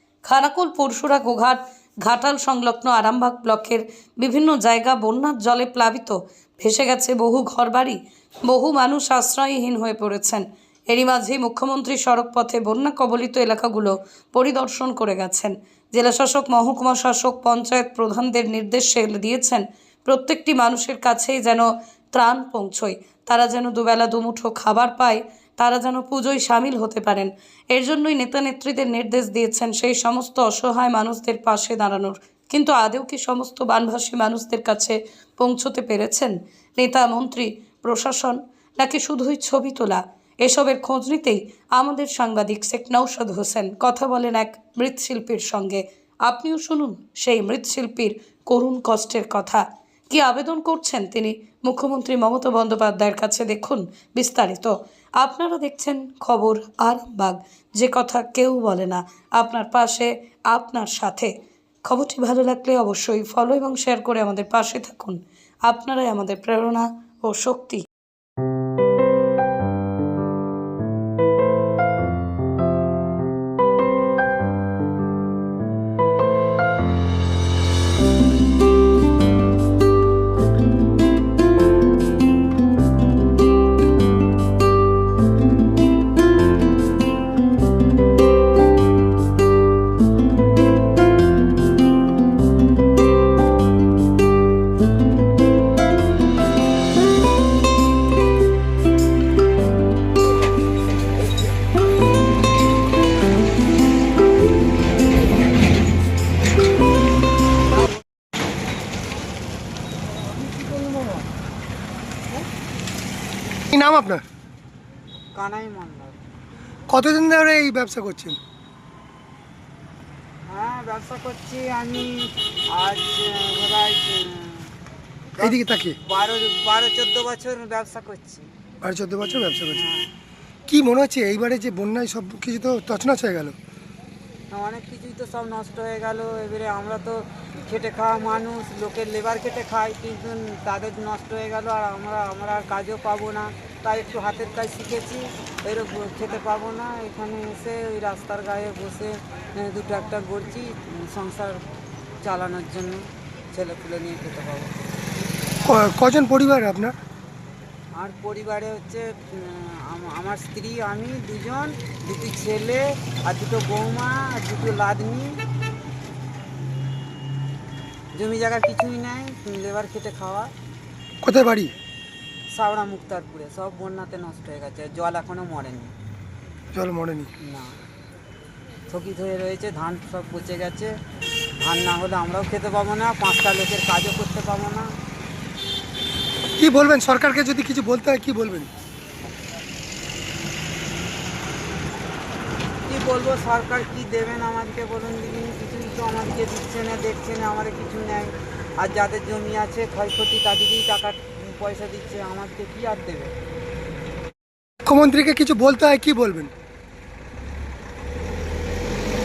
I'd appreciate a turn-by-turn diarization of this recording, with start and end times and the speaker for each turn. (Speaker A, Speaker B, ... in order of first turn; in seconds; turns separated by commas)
Speaker A: 0.2-61.3, Speaker A: 61.8-67.8, Speaker B: 113.7-114.2, Speaker C: 115.3-116.2, Speaker B: 116.9-118.4, Speaker C: 120.5-124.7, Speaker C: 125.3-128.5, Speaker B: 125.4-126.0, Speaker B: 128.8-129.8, Speaker C: 129.7-130.1, Speaker B: 130.7-133.5, Speaker C: 134.5-151.6, Speaker C: 152.2-155.0, Speaker B: 155.6-156.9, Speaker C: 157.9-165.4, Speaker C: 168.1-170.5, Speaker B: 171.2-171.7, Speaker C: 172.5-175.9, Speaker B: 176.7-177.3, Speaker C: 177.4-177.8, Speaker C: 178.9-181.0, Speaker C: 181.6-184.9, Speaker B: 186.6-188.7, Speaker C: 192.8-203.3, Speaker B: 204.8-206.5